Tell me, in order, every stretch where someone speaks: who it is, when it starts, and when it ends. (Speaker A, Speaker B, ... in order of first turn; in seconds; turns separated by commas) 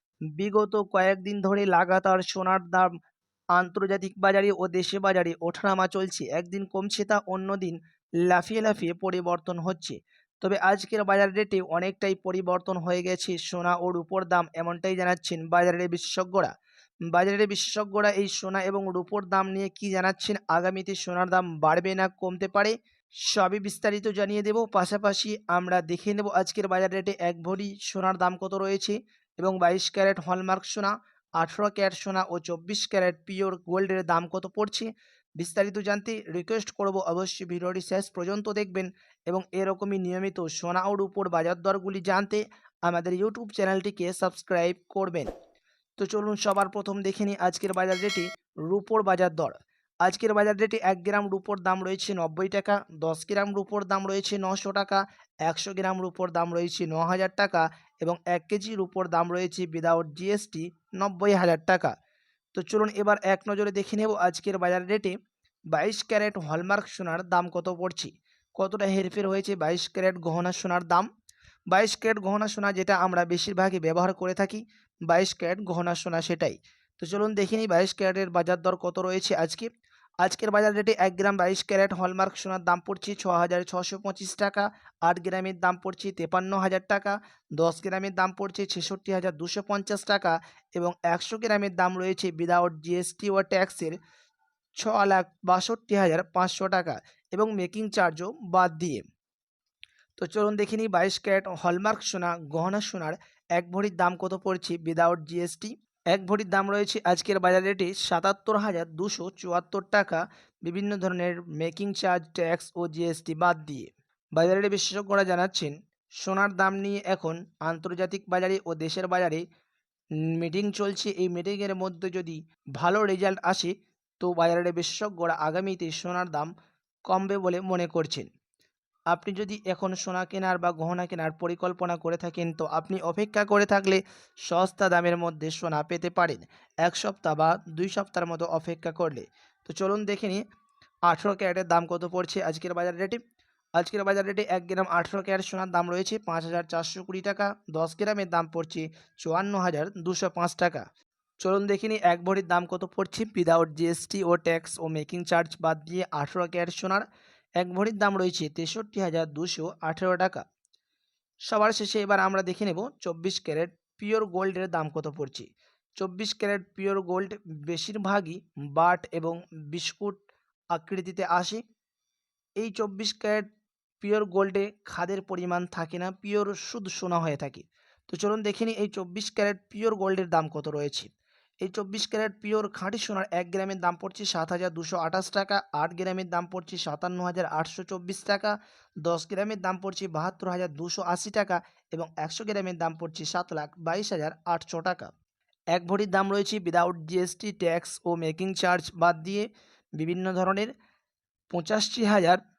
Speaker A: 0.4-2.9, Speaker A: 3.5-16.5, Speaker A: 17.1-22.7, Speaker A: 23.3-45.3, Speaker A: 46.0-61.9, Speaker A: 62.5-65.2, Speaker A: 65.7-71.1, Speaker A: 71.7-79.7, Speaker A: 80.2-94.0, Speaker A: 94.8-99.0, Speaker A: 100.2-119.4, Speaker A: 120.4-126.5, Speaker A: 127.1-128.3, Speaker A: 129.1-140.4, Speaker A: 141.1-143.2, Speaker A: 143.8-150.8, Speaker A: 151.4-157.1, Speaker A: 157.6-160.4, Speaker A: 161.5-165.5, Speaker A: 166.0-170.2, Speaker A: 170.7-171.6, Speaker A: 172.6-173.5, Speaker A: 174.0-181.1, Speaker A: 181.6-195.1, Speaker A: 195.7-199.5, Speaker A: 200.0-200.7, Speaker A: 201.5-202.4